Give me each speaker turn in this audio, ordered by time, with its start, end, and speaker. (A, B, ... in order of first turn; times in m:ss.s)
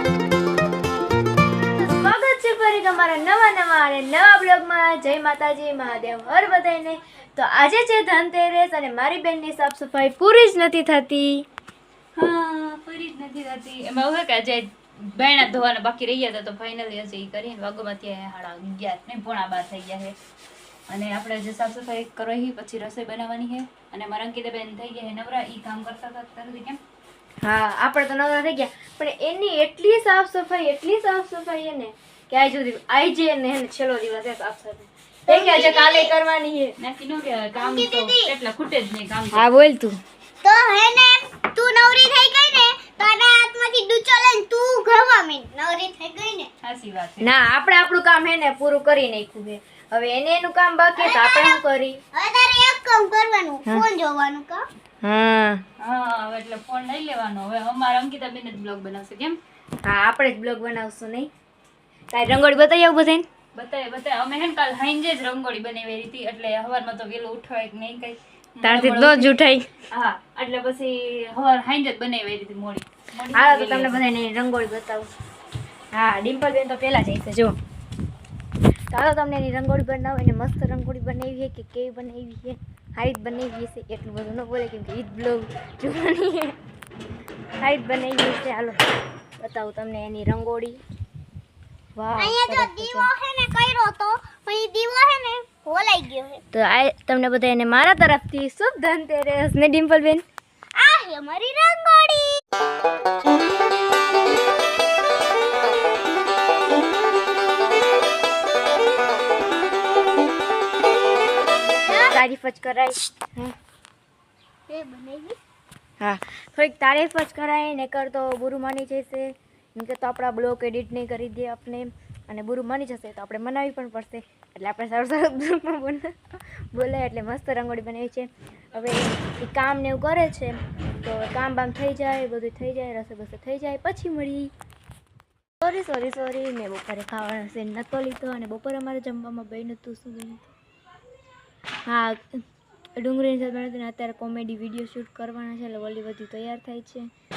0:01.6-0:11.5 A
0:12.2-0:20.2 B
0:20.9-0:26.8 B
0:27.4-0:36.8 A
0:35.3-0:36.1 C
0:36.8-0:39.5 B
0:37.6-0:38.3 C
0:39.3-0:40.0 A
0:40.4-0:46.5 C
0:46.6-0:47.3 B
0:47.2-0:52.0 A
0:51.0-0:51.6 C
0:52.1-0:54.6 C
0:55.0-0:55.6 A
0:55.8-0:59.4 B
0:59.8-1:01.3 A
1:02.1-1:03.3 A
1:03.6-1:09.4 B
1:08.6-1:09.7 A
1:09.9-1:14.0 B
1:13.3-1:15.1 A
1:15.9-1:17.6 A
1:18.9-1:26.6 A
1:27.6-1:28.8 A
1:29.4-1:30.8 A
1:32.0-1:33.1 A
1:32.2-1:36.4 C
1:36.5-1:40.2 A
1:40.8-1:42.4 C
1:51.8-1:52.2 C
1:51.9-1:53.6 A
1:54.7-1:55.4 C
1:56.0-2:14.5 A
2:15.6-2:20.5 A
2:21.8-2:22.4 A
2:23.0-2:27.1 A